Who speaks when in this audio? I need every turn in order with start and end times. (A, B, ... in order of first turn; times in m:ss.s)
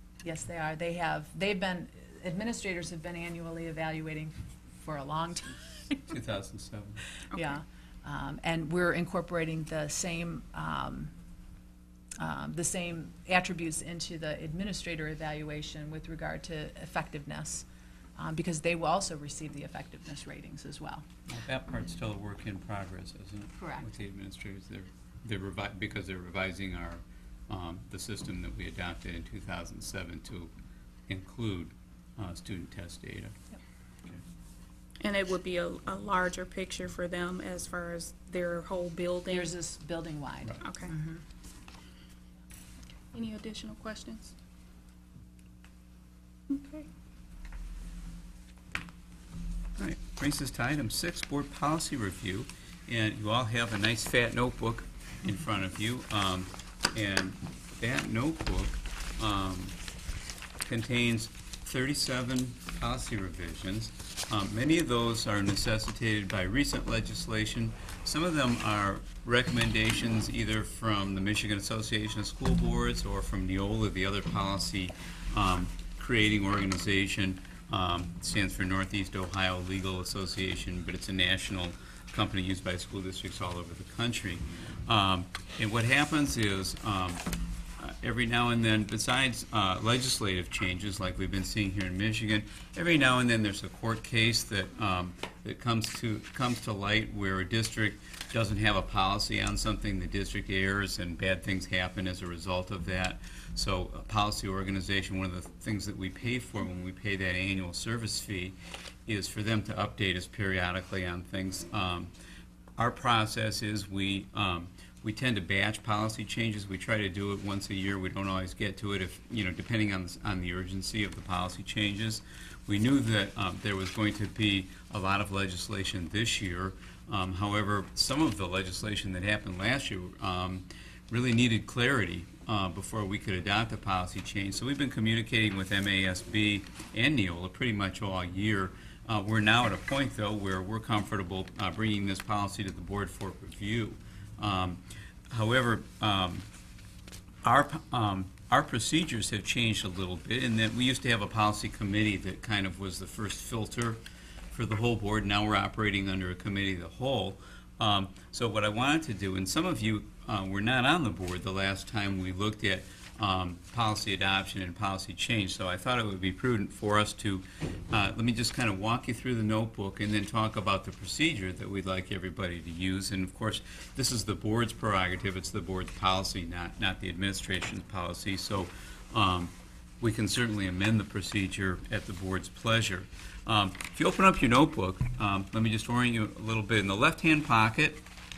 0:00.2-0:06.1 A
0:06.1-0:07.1 B
0:07.3-0:11.1 A
0:12.2-0:17.6 A
0:18.2-0:21.0 A
0:21.3-0:30.5 B
0:23.6-0:23.9 A
0:31.1-0:33.3 B
0:35.0-0:39.5 C
0:39.3-0:41.2 A
0:40.6-0:40.9 C
0:43.1-0:44.3 C
0:46.5-0:46.9 C
0:49.8-0:59.7 B
1:00.6-1:27.2 B
1:27.8-1:48.6 B
1:49.1-1:52.1 B
1:52.8-2:24.8 B
2:25.3-2:26.5 B
2:27.4-2:34.0 B
2:34.5-3:08.0 B